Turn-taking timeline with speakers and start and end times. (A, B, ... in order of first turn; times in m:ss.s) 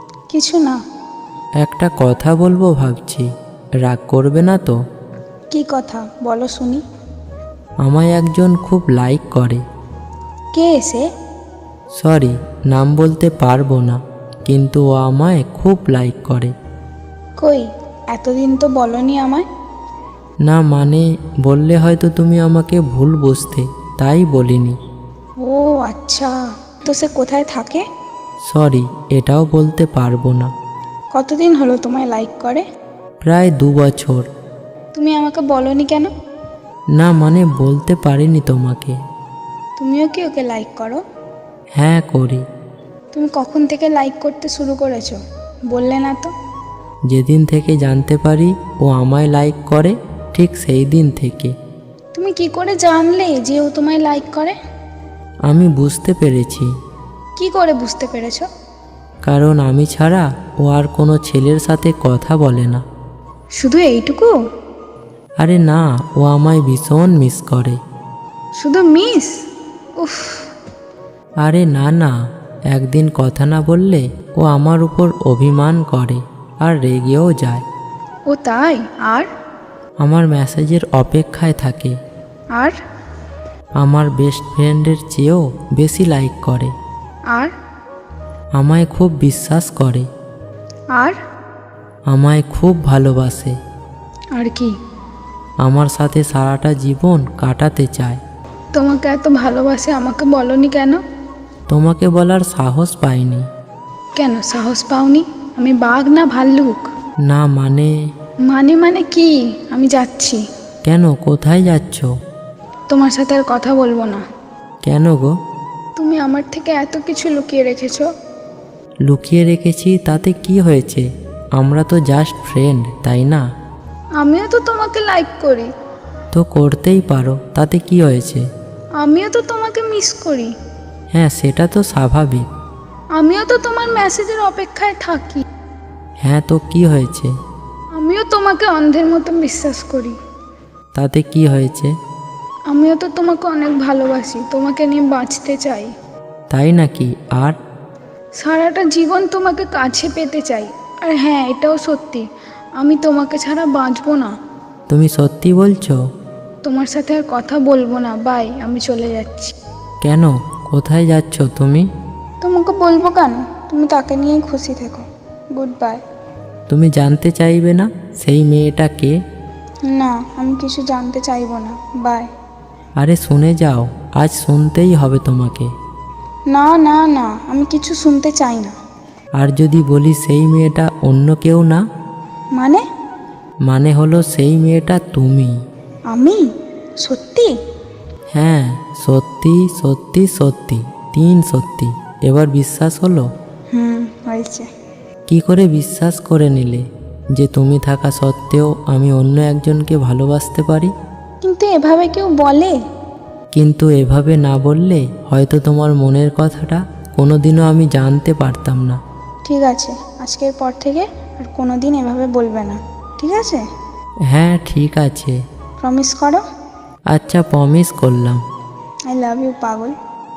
0:00.3-0:00.8 A
0:01.6-0:03.3 B
0:03.8-0:04.8 B
0:05.5-0:06.8 A
0:07.8-0:09.6 B
0:10.5-0:11.0 A
0:12.0-0:16.5 B
0:17.4-0:19.4 A
0:20.4-0:24.8 B
0:25.4-0:26.3 A
0:26.9-0:27.8 A
0:28.4-0:30.5 B
0:31.1-0:32.6 A
0:33.2-0:34.3 B
0:34.9-0:36.1 A
0:36.9-0:39.0 B
0:39.8-0:41.0 A
0:41.8-0:42.4 B
0:43.1-0:45.2 A
0:45.7-0:46.3 A
0:47.1-0:51.5 B
0:52.1-0:54.6 A
0:55.5-0:56.7 B
0:57.4-0:58.5 A
0:59.2-1:02.8 B
1:03.6-1:04.3 A
1:05.4-1:07.8 B
1:08.6-1:09.3 A
1:10.0-1:10.5 A
1:11.4-1:12.1 B
1:12.7-1:17.6 B
1:18.3-1:19.3 A
1:20.0-1:22.0 B
1:23.8-1:26.7 B
1:28.6-1:30.1 B
1:32.1-1:33.5 B
1:34.4-1:34.7 A
1:35.6-1:38.2 B
1:38.7-1:41.0 A
1:41.7-1:43.4 B
1:44.2-1:46.9 A
1:47.2-1:47.9 B
1:48.4-1:50.4 A
1:50.8-1:52.1 B
1:52.9-1:54.2 A
1:54.8-1:55.3 B
1:56.0-1:58.1 A
1:59.0-2:01.0 B
2:01.6-2:03.4 B
2:04.2-2:05.7 A
2:06.3-2:08.4 B
2:09.0-2:10.5 A
2:11.1-2:12.5 B
2:13.2-2:15.4 A
2:16.2-2:17.3 B
2:18.0-2:20.2 A
2:20.9-2:21.9 B
2:22.7-2:25.9 A
2:26.5-2:27.6 B
2:28.4-2:32.3 A
2:32.8-2:34.3 A
2:34.9-2:36.0 B
2:36.6-2:39.5 A
2:40.0-2:41.8 B
2:42.4-2:46.0 A
2:46.7-2:49.1 B
2:49.9-2:52.3 A
2:53.0-2:55.7 B
2:56.5-2:58.7 A
2:59.4-3:01.8 B
3:03.6-3:05.5 B
3:06.1-3:06.4 A
3:07.0-3:07.5 A
3:08.3-3:13.3 B
3:13.7-3:14.6 A
3:15.3-3:16.8 B
3:17.4-3:20.9 B
3:21.4-3:22.7 A
3:23.5-3:29.0 B
3:29.4-3:33.6 A
3:34.3-3:35.4 B
3:35.8-3:36.4 A
3:37.1-3:38.4 B
3:39.1-3:39.9 A